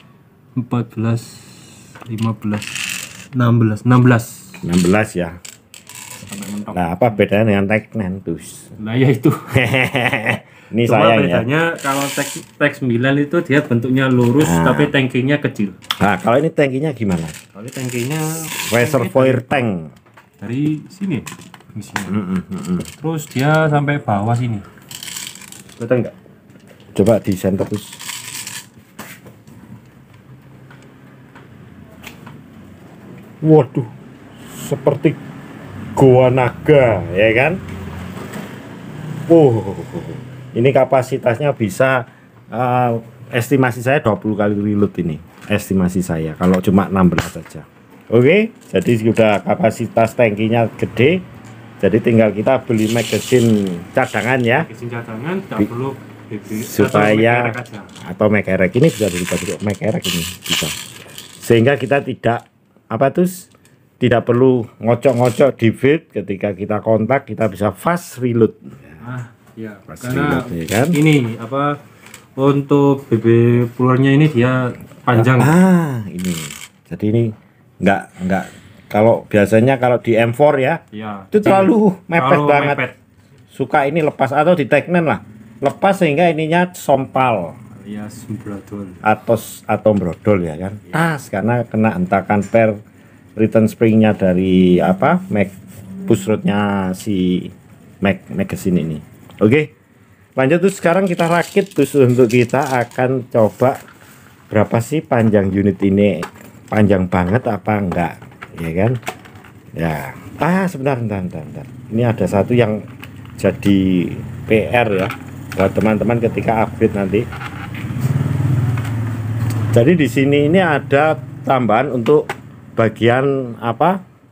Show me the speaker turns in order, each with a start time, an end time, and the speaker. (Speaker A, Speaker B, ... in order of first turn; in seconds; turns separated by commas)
Speaker A: 0.5-2.8, Speaker A: 3.3-4.6, Speaker B: 4.6-5.4, Speaker A: 6.2-7.2, Speaker B: 6.7-8.7, Speaker A: 8.8-9.5, Speaker B: 9.5-11.4, Speaker A: 10.8-15.8, Speaker B: 14.4-14.9, Speaker B: 16.0-17.4, Speaker A: 17.5-19.7, Speaker B: 18.5-19.9, Speaker A: 20.4-22.2, Speaker B: 22.1-22.9, Speaker A: 23.0-24.7, Speaker A: 25.8-26.1, Speaker B: 26.9-28.0, Speaker B: 33.4-33.9, Speaker B: 34.5-35.2, Speaker B: 36.0-37.6, Speaker B: 39.3-51.2, Speaker B: 51.8-54.7, Speaker A: 54.5-57.9, Speaker B: 56.5-60.7, Speaker B: 61.4-63.5, Speaker B: 64.0-69.0, Speaker A: 69.0-71.8, Speaker B: 69.9-71.0, Speaker A: 72.3-75.5, Speaker B: 75.1-80.8, Speaker A: 80.9-83.0, Speaker B: 81.3-82.8, Speaker B: 83.5-87.6, Speaker A: 87.8-89.0, Speaker B: 89.0-92.8, Speaker B: 93.4-95.5, Speaker B: 96.1-99.7, Speaker B: 100.3-103.8, Speaker B: 104.5-109.0, Speaker B: 109.7-112.8, Speaker B: 113.4-117.2, Speaker B: 119.7-124.0